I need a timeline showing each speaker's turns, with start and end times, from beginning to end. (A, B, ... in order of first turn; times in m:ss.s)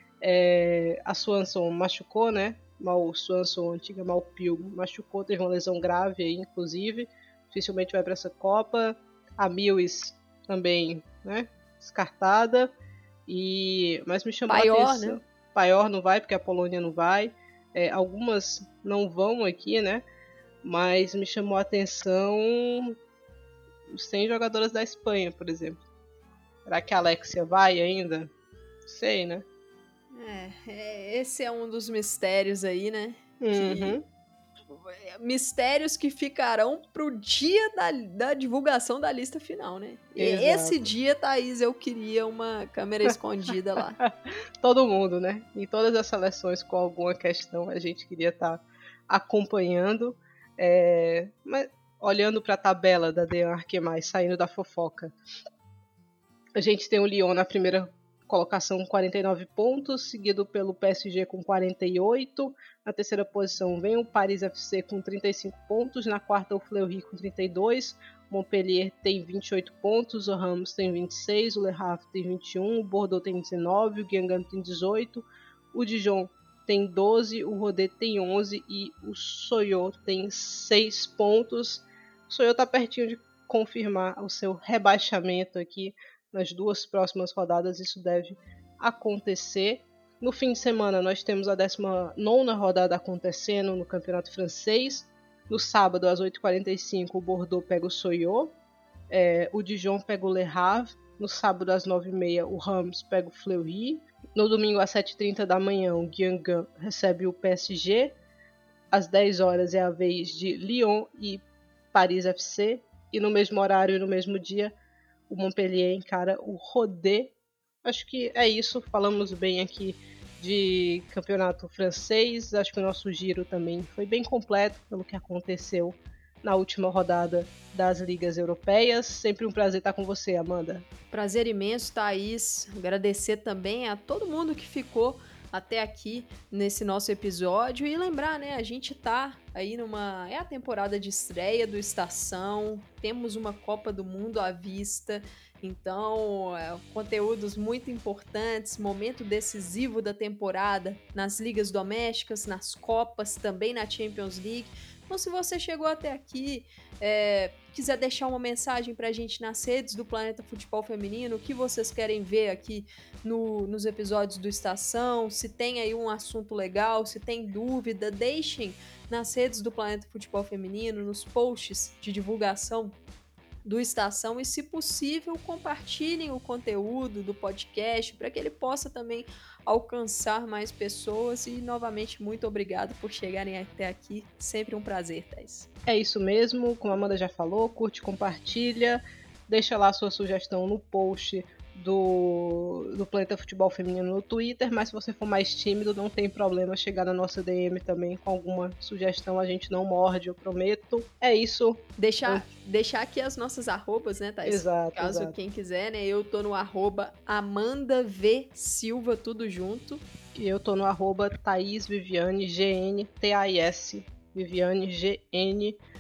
0:00.2-0:12.7 A
0:13.3-0:20.0 A
0:14.5-0:15.2 B
0:20.6-0:23.0 A
0:23.9-0:25.8 A
0:26.7-0:28.3 A
0:28.9-0:29.4 A
0:30.1-0:34.0 B
0:33.4-0:34.0 A
0:34.7-0:44.0 B
0:40.2-0:40.9 A
0:44.0-0:55.2 A
0:56.6-1:38.5 A
1:39.1-1:48.2 A
1:48.9-1:54.7 A
1:55.3-2:10.9 A
2:11.1-2:53.0 B
2:53.6-3:05.7 B
3:05.9-3:22.5 A
3:22.0-3:30.0 B
3:24.4-3:25.4 A
3:30.4-3:35.8 A